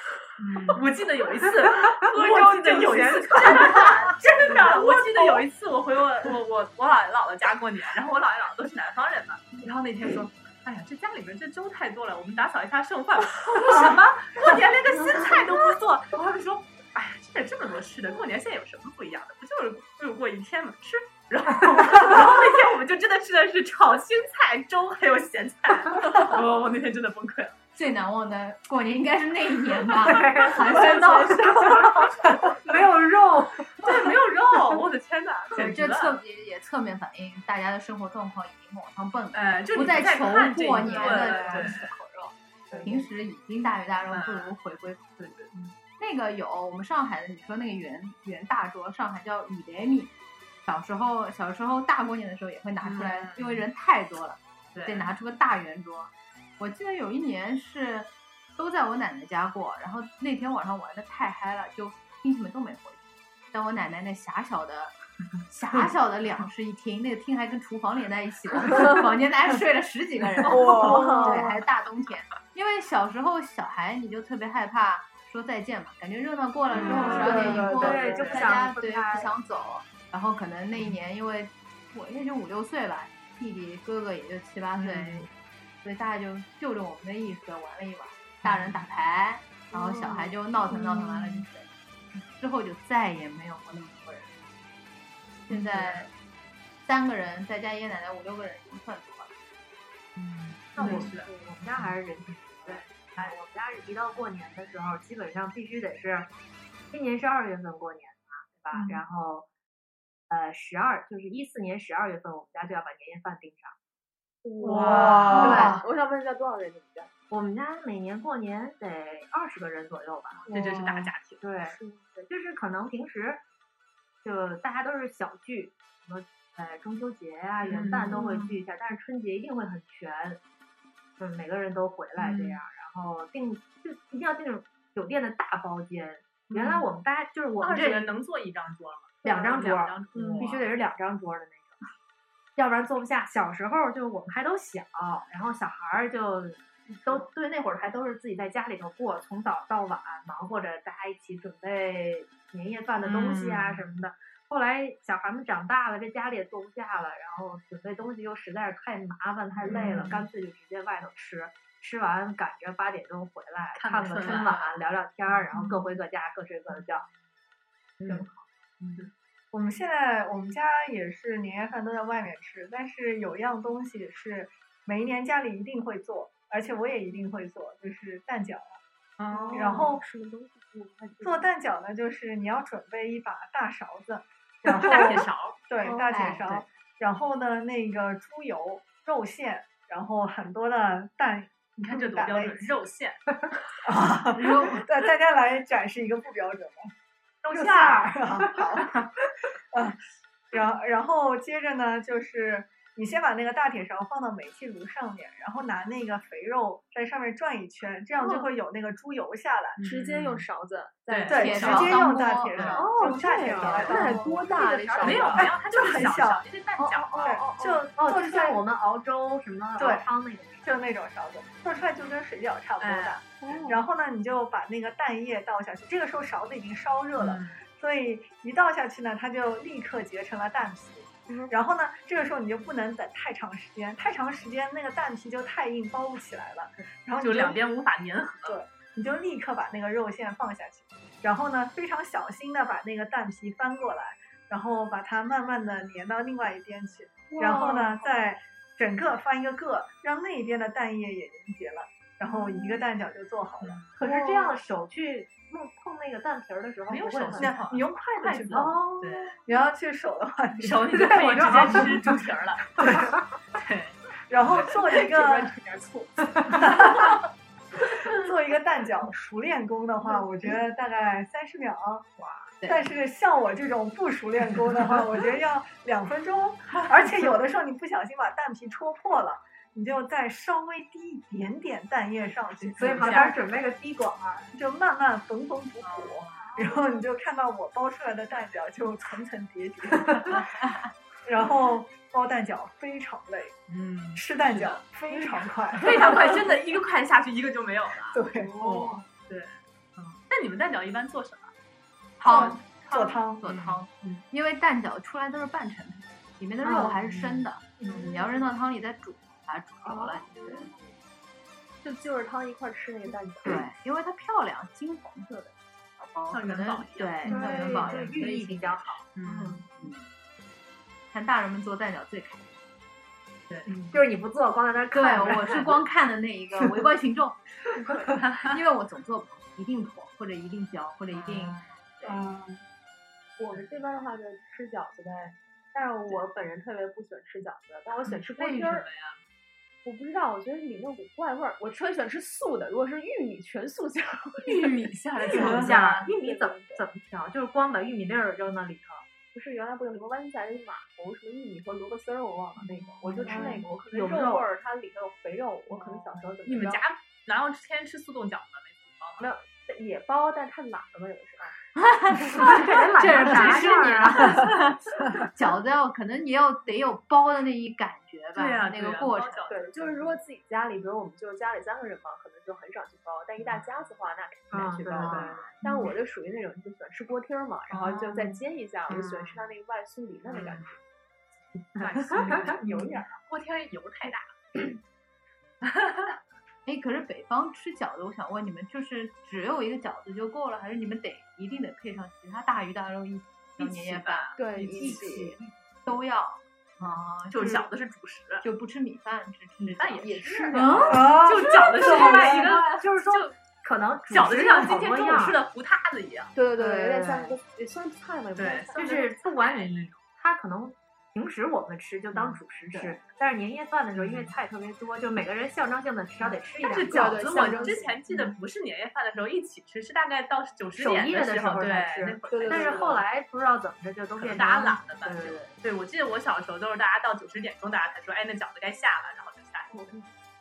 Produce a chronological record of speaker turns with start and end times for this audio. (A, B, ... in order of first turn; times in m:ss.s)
0:00.4-0:27.6 A
0:02.0-0:05.4 B
0:27.8-0:31.9 C
0:29.9-0:34.1 D
0:33.8-0:36.2 A
0:35.6-0:45.2 C
0:39.3-0:41.9 A
0:40.8-0:41.7 D
0:42.7-0:43.0 D
0:44.1-0:44.5 A
0:45.2-0:45.7 A
0:46.0-0:50.1 C
0:50.7-1:25.3 C
0:52.8-0:53.7 A
0:54.8-0:55.1 A
1:10.4-1:11.5 B
1:10.9-1:11.4 D
1:16.8-1:18.4 A
1:16.8-1:19.3 D
1:16.8-1:18.3 B
1:24.8-1:25.3 A
1:25.8-1:31.7 C
1:28.4-1:28.8 A
1:32.3-1:34.4 C
1:35.5-1:36.1 C
1:35.5-1:36.0 A
1:36.9-1:39.3 C
1:40.2-1:41.9 A
1:40.8-1:46.3 D
1:42.5-1:43.3 A
1:46.9-1:49.5 D
1:50.3-1:53.8 D
1:54.4-1:57.1 B
1:54.6-1:55.8 A
1:55.3-1:55.8 D
1:57.3-2:00.5 D
2:00.5-2:00.8 B
2:00.5-2:01.4 A
2:01.4-2:03.4 D
2:01.6-2:02.2 B
2:04.2-2:10.4 D
2:07.6-2:08.2 A
2:11.2-2:18.1 D
2:12.2-2:12.6 A
2:16.5-2:16.9 A
2:17.6-2:20.7 A
2:19.2-2:21.8 D
2:22.6-2:47.1 D
2:33.0-2:33.9 A
2:39.6-2:40.2 A
2:43.8-2:44.6 A
2:44.2-2:44.7 C
2:45.5-2:45.8 A
2:48.0-2:48.5 D
2:48.8-2:49.1 A
2:49.5-2:58.8 E
2:59.2-2:59.8 A
2:59.3-3:01.5 B
2:59.5-3:00.0 E
3:01.2-3:12.8 E
3:04.8-3:05.6 A
3:05.8-3:06.6 B
3:06.1-3:06.6 C
3:11.8-3:13.2 A
3:13.8-3:16.9 E
3:14.3-3:14.8 C
3:17.4-3:18.1 A
3:17.5-3:19.0 E
3:19.7-3:20.0 E
3:20.5-3:29.8 E
3:28.2-3:28.5 B
3:29.8-3:30.5 A
3:29.8-3:32.0 B
3:31.1-3:32.0 A
3:31.3-3:36.4 E
3:31.3-3:32.9 C
3:32.6-3:32.8 A
3:32.7-3:35.5 B
3:33.1-3:35.5 D
3:33.7-3:34.2 A
3:35.0-3:37.4 A
3:36.8-3:37.8 B
3:37.2-3:38.6 E
3:37.9-3:40.7 D
3:39.8-3:40.1 E
3:40.6-3:57.6 E
3:42.8-3:43.2 A
3:43.4-3:43.8 B
3:47.2-3:47.6 A
3:57.2-3:58.6 A
3:58.5-4:13.8 E
4:07.3-4:08.2 B
4:12.3-4:12.6 B
4:13.6-4:14.0 A
4:14.0-4:17.6 D
4:14.0-4:14.6 B
4:16.9-4:19.4 A
4:17.4-4:18.8 E
4:18.5-4:19.3 D
4:19.5-4:22.2 E
4:20.6-4:22.9 A
4:20.9-4:21.9 D
4:22.8-4:23.1 E
4:22.8-4:23.1 D
4:23.6-4:24.0 A
4:24.3-4:25.5 E
4:24.5-4:24.8 A
4:24.7-4:27.0 B
4:26.5-4:27.1 E
4:28.1-4:32.1 E
4:32.6-4:43.5 E
4:42.6-4:43.4 A
4:42.8-4:44.5 D
4:44.5-4:50.6 E
4:45.8-4:46.3 C
4:51.2-4:53.6 E
4:53.7-4:54.8 A
4:54.1-4:56.4 E
4:55.8-5:01.5 A
4:58.1-4:58.6 E
5:02.2-5:02.7 A
5:02.2-5:10.6 C
5:02.3-5:03.4 E
5:03.4-5:04.2 A
5:06.8-5:07.4 A
5:07.9-5:08.4 B
5:09.8-5:10.8 B
5:11.8-5:13.7 B
5:13.4-5:19.0 C
5:16.3-5:18.0 A
5:17.0-5:19.6 D
5:17.4-5:17.7 B
5:19.2-5:19.6 A
5:19.7-5:20.1 C
5:21.1-5:22.6 C
5:23.5-5:23.9 A
5:23.9-5:25.8 D
5:24.9-5:27.5 C
5:28.2-5:28.5 A
5:28.4-5:31.6 C
5:31.1-5:31.8 A
5:32.1-5:32.6 E
5:33.4-5:38.9 B
5:38.0-5:39.2 A
5:39.8-5:45.5 B
5:44.4-5:46.1 A
5:45.3-5:45.7 E
5:45.3-5:49.1 D
5:46.0-5:46.9 B
5:49.3-5:56.8 B
5:53.1-5:53.5 A
5:53.2-5:54.5 D
5:56.4-5:59.2 A
5:59.2-6:01.6 B
6:01.8-6:09.5 C
6:02.3-6:04.6 D
6:02.4-6:03.5 B
6:03.2-6:03.7 A
6:08.4-6:10.2 A
6:09.5-6:20.8 B
6:14.5-6:15.7 D
6:15.0-6:15.3 C
6:17.7-6:18.4 A
6:18.9-6:19.3 A
6:21.8-6:23.0 D
6:21.8-6:22.6 A
6:21.9-6:23.2 B
6:23.3-6:24.8 A
6:25.6-6:26.2 A
6:26.7-6:37.6 C
6:33.6-6:35.2 A
6:34.4-6:35.4 B
6:37.3-6:38.4 A
6:38.4-6:41.2 C
6:39.8-6:43.4 A
6:40.0-6:41.2 B
6:40.9-6:42.6 E
6:41.8-6:45.4 D
6:44.1-6:46.3 A
6:46.4-6:49.0 B
6:46.6-6:47.4 D
6:48.4-6:50.0 A
6:48.8-6:57.9 D
6:52.1-6:52.4 A
6:52.7-6:53.0 B
6:53.9-6:54.3 A
6:56.2-7:03.0 A
6:56.6-6:58.0 B
7:00.8-7:05.5 D
7:02.3-7:03.0 B
7:04.2-7:09.7 A
7:09.7-7:10.1 B